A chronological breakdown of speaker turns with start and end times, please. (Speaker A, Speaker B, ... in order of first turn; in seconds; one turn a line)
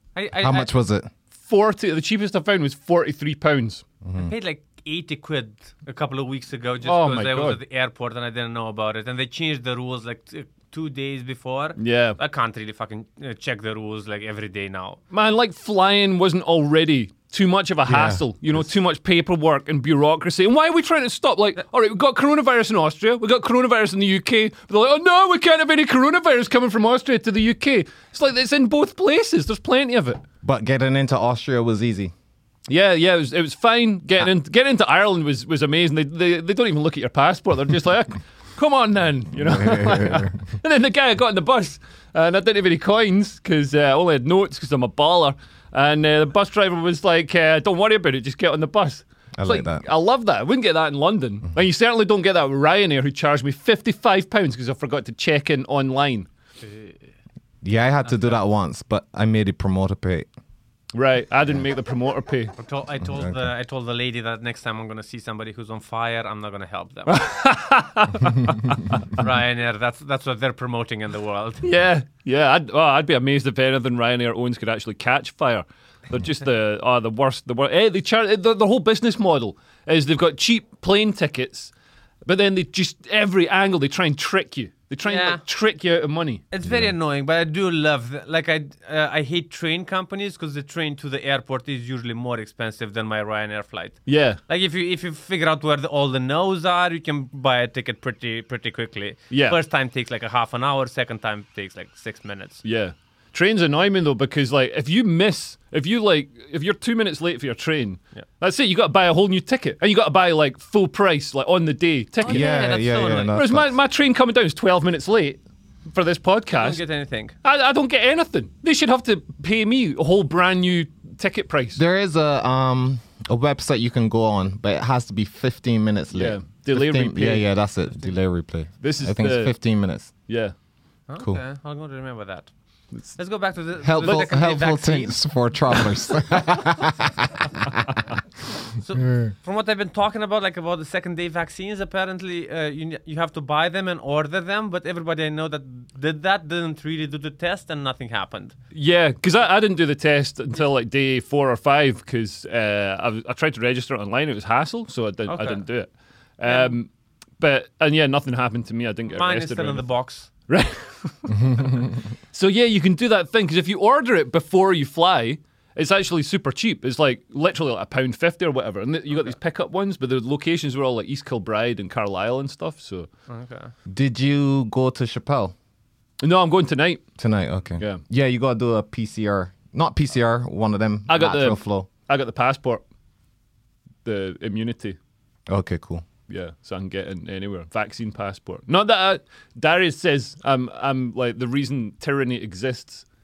Speaker A: 0.1-0.7
Speaker B: 0.4-1.1
Speaker C: 1.4-3.8
Speaker B: 4.0-4.3
Speaker A: 4.2-15.0
Speaker C: 6.8-7.6
Speaker C: 11.8-12.2
Speaker C: 15.1-30.2
Speaker B: 17.9-18.6
Speaker B: 30.4-32.1
Speaker C: 32.7-56.3
Speaker B: 39.4-40.4
Speaker B: 49.4-49.8
Speaker A: 56.6-57.1
Speaker B: 57.6-60.3
Speaker A: 58.1-58.4
Speaker C: 60.9-62.5
Speaker A: 62.6-67.2
Speaker B: 63.1-63.4
Speaker C: 67.1-69.0
Speaker A: 69.1-71.6
Speaker C: 71.6-81.7
Speaker C: 82.2-86.4
Speaker A: 85.0-85.4
Speaker A: 86.5-102.6
Speaker B: 86.7-86.9
Speaker C: 94.1-94.4
Speaker C: 99.3-99.6
Speaker C: 102.6-112.5
Speaker A: 112.2-113.3
Speaker B: 112.2-113.8
Speaker C: 113.3-115.4
Speaker C: 115.9-116.8
Speaker A: 116.6-117.3
Speaker C: 117.4-121.8
Speaker B: 121.8-130.1
Speaker C: 126.1-127.5
Speaker C: 128.8-129.6
Speaker C: 130.3-130.5
Speaker A: 131.1-132.5
Speaker A: 133.1-135.2
Speaker B: 133.8-138.0
Speaker A: 138.8-148.6
Speaker C: 148.7-156.9
Speaker A: 155.3-155.7
Speaker A: 156.4-156.8
Speaker C: 157.4-159.8
Speaker A: 159.1-160.3
Speaker C: 160.5-173.1
Speaker B: 161.3-161.9
Speaker A: 173.3-173.7
Speaker B: 173.9-175.5
Speaker C: 176.2-177.0
Speaker B: 177.2-181.9
Speaker C: 181.1-182.8
Speaker C: 184.1-185.0
Speaker B: 185.5-186.1
Speaker C: 186.3-193.0